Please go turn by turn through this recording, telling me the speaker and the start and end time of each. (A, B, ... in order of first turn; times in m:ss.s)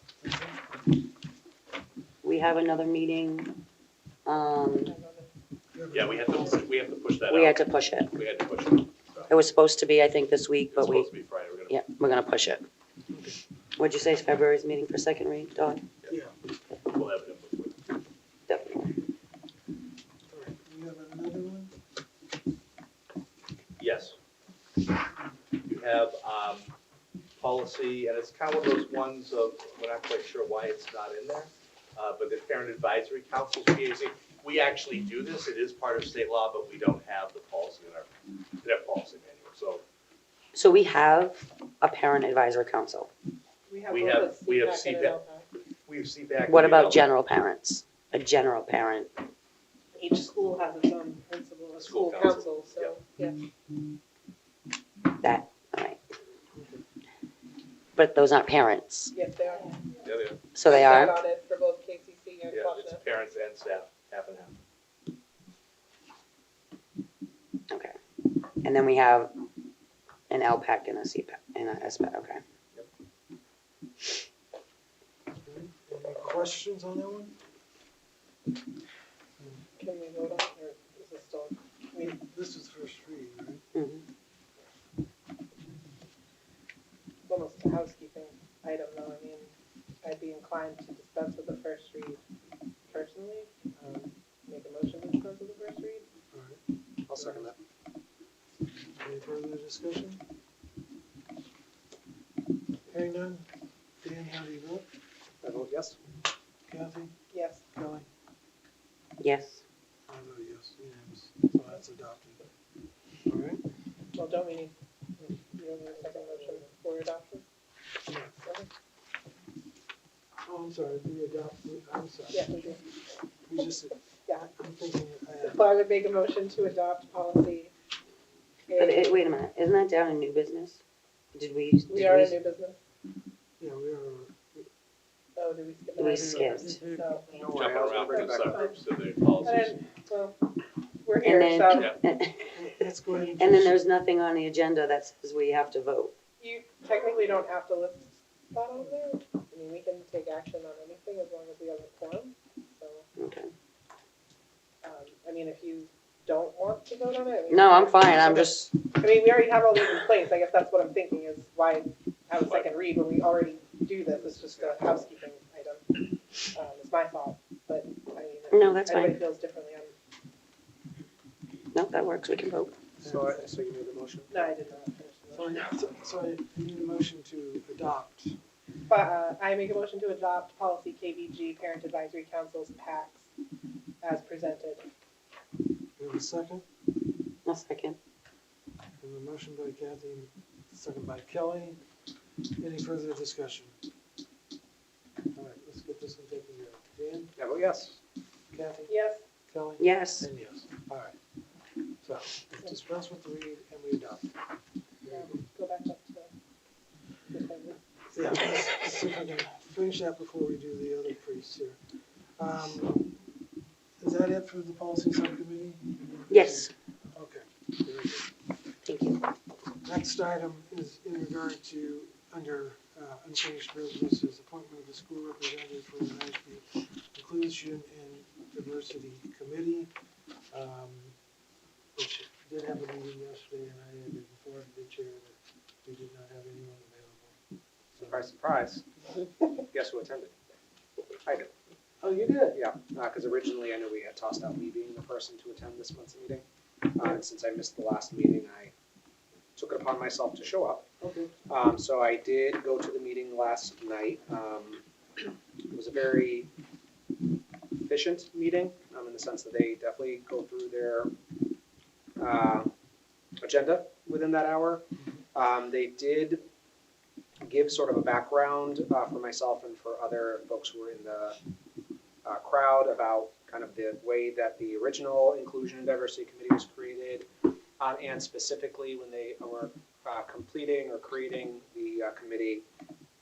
0:00.2-0:00.6 A
0:02.2-0:03.5 B
0:04.2-0:04.9 B
0:04.8-0:05.3 C
0:05.7-0:06.6 A
0:05.9-0:09.4 D
0:07.3-0:08.1 B
0:09.3-0:11.1 B
0:10.7-0:11.8 D
0:11.7-0:12.6 B
0:13.1-0:13.4 A
0:13.8-0:15.8 B
0:16.9-0:17.8 D
0:18.5-0:18.9 B
0:20.3-0:21.7 A
0:23.8-0:24.1 D
0:25.6-0:26.7 D
0:27.4-0:38.1 D
0:38.6-0:39.8 D
0:40.5-0:43.1 B
0:43.7-0:45.4 C
0:43.9-0:45.2 D
0:45.9-0:47.1 D
0:46.5-0:49.1 B
0:50.0-0:53.4 C
0:51.8-0:53.0 D
0:55.2-0:56.0 B
0:56.5-0:56.8 A
0:58.0-0:59.1 B
0:59.1-0:59.8 C
1:00.0-1:00.4 D
1:00.5-1:01.2 B
1:00.6-1:03.0 C
1:02.5-1:04.5 D
1:07.7-1:08.0 B
1:08.6-1:09.3 B
1:10.3-1:12.4 B
1:15.4-1:17.3 A
1:19.8-1:22.1 C
1:22.0-1:23.6 A
1:23.7-1:24.0 B
1:27.3-1:29.5 C
1:30.0-1:32.2 C
1:32.9-1:36.0 C
1:36.3-1:36.6 A
1:37.1-1:37.6 E
1:37.1-1:37.4 A
1:39.0-1:40.2 A
1:42.9-1:43.5 A
1:44.0-1:44.8 A
1:45.4-1:46.0 E
1:46.7-1:47.2 A
1:47.3-1:47.6 C
1:47.7-1:48.1 A
1:49.2-1:49.6 B
1:50.1-1:52.5 A
1:53.2-1:53.6 A
1:54.1-1:57.4 C
1:58.4-1:58.7 C
2:00.4-2:02.5 A
2:02.3-2:02.8 C
2:03.5-2:05.6 A
2:05.4-2:07.7 C
2:08.7-2:09.2 C
2:08.7-2:10.8 B
2:11.3-2:12.4 B
2:11.9-2:12.8 C
2:13.6-2:14.6 A
2:15.4-2:17.3 C
2:16.0-2:16.8 B
2:17.3-2:18.6 E
2:17.4-2:19.8 D
2:17.8-2:18.8 C
2:19.4-2:20.4 C
2:21.0-2:21.9 C
2:21.2-2:22.5 B
2:21.7-2:22.0 D
2:22.5-2:23.8 A
2:23.4-2:26.1 B
2:26.4-2:33.0 C
2:33.2-2:33.5 B
2:34.8-2:49.9 C
2:37.5-2:38.7 B
2:42.4-2:42.7 D
2:44.1-2:44.9 E
2:48.5-2:49.2 B
2:51.7-2:52.7 B
2:53.0-2:53.4 A
2:53.0-2:54.5 E
2:54.3-2:55.7 C
2:55.3-2:58.4 A
2:58.9-3:03.3 C
3:04.0-3:04.8 C
3:06.0-3:06.6 A
3:07.4-3:08.0 B
3:09.0-3:11.8 A
3:12.6-3:13.8 A
3:15.3-3:17.3 A
3:17.4-3:18.0 E
3:18.5-3:18.9 A
3:18.9-3:19.2 C
3:19.5-3:21.2 A
3:19.8-3:20.3 B
3:22.0-3:24.3 A
3:25.0-3:25.3 A
3:25.1-3:26.3 C
3:27.3-3:27.8 C
3:28.1-3:33.2 A
3:34.0-3:38.3 A
3:36.3-3:36.7 B
3:38.8-3:39.2 B
3:39.8-3:49.9 A
3:50.5-3:51.2 A
3:51.9-3:57.4 A
3:57.9-3:58.2 A
3:58.0-3:58.8 E
3:59.6-4:00.3 E
4:01.2-4:01.5 E
4:02.0-4:02.6 A
4:02.5-4:08.7 E
4:09.6-4:10.8 E
4:11.0-4:11.3 A
4:11.5-4:14.8 E
4:15.7-4:16.5 E
4:17.8-4:21.1 E
4:22.2-4:22.7 E
4:23.4-4:24.8 E
4:25.3-4:26.4 E
4:27.4-4:31.4 E
4:32.2-4:37.3 E
4:37.8-4:42.6 E